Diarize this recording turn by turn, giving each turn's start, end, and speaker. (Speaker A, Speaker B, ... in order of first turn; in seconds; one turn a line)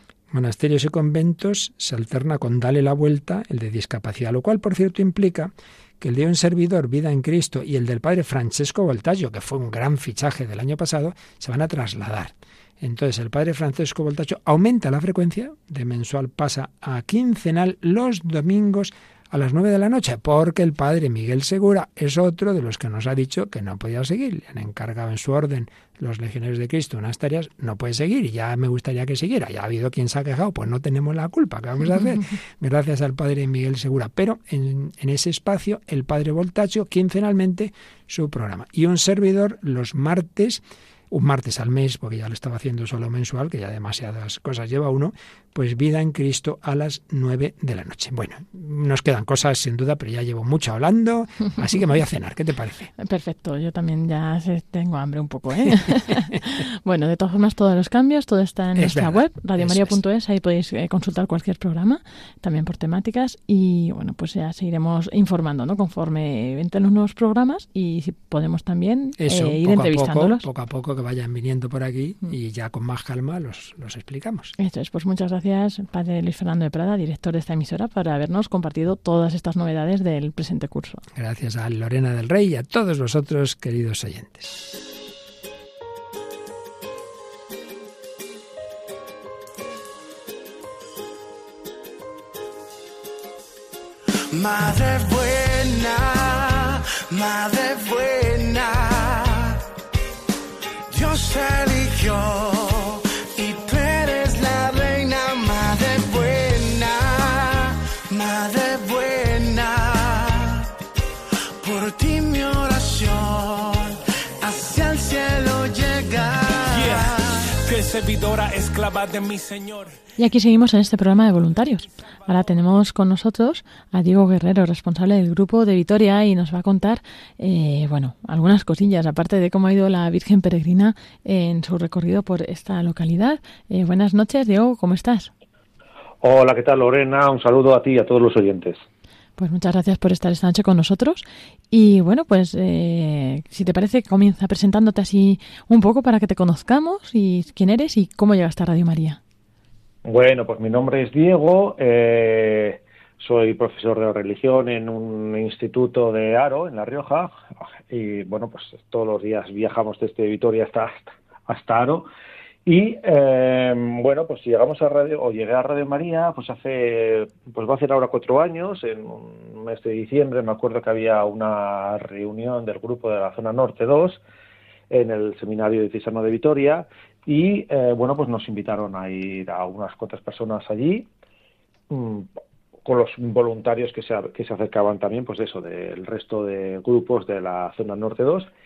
Speaker A: 0.3-52.9
Speaker B: 53.0-70.5
Speaker A: 58.8-60.0
Speaker A: 69.2-74.5
Speaker B: 74.6-81.0
Speaker A: 81.1-84.6
Speaker C: 94.3-99.6
Speaker C: 100.9-110.7
Speaker C: 111.6-117.3
Speaker D: 116.7-120.0
Speaker B: 120.2-135.3
Speaker E: 136.2-138.8
Speaker B: 139.4-149.2
Speaker E: 150.1-157.3
Speaker E: 157.9-162.1
Speaker E: 162.7-174.2
Speaker E: 174.9-181.1
Speaker E: 181.9-182.3
Speaker E: 182.8-188.5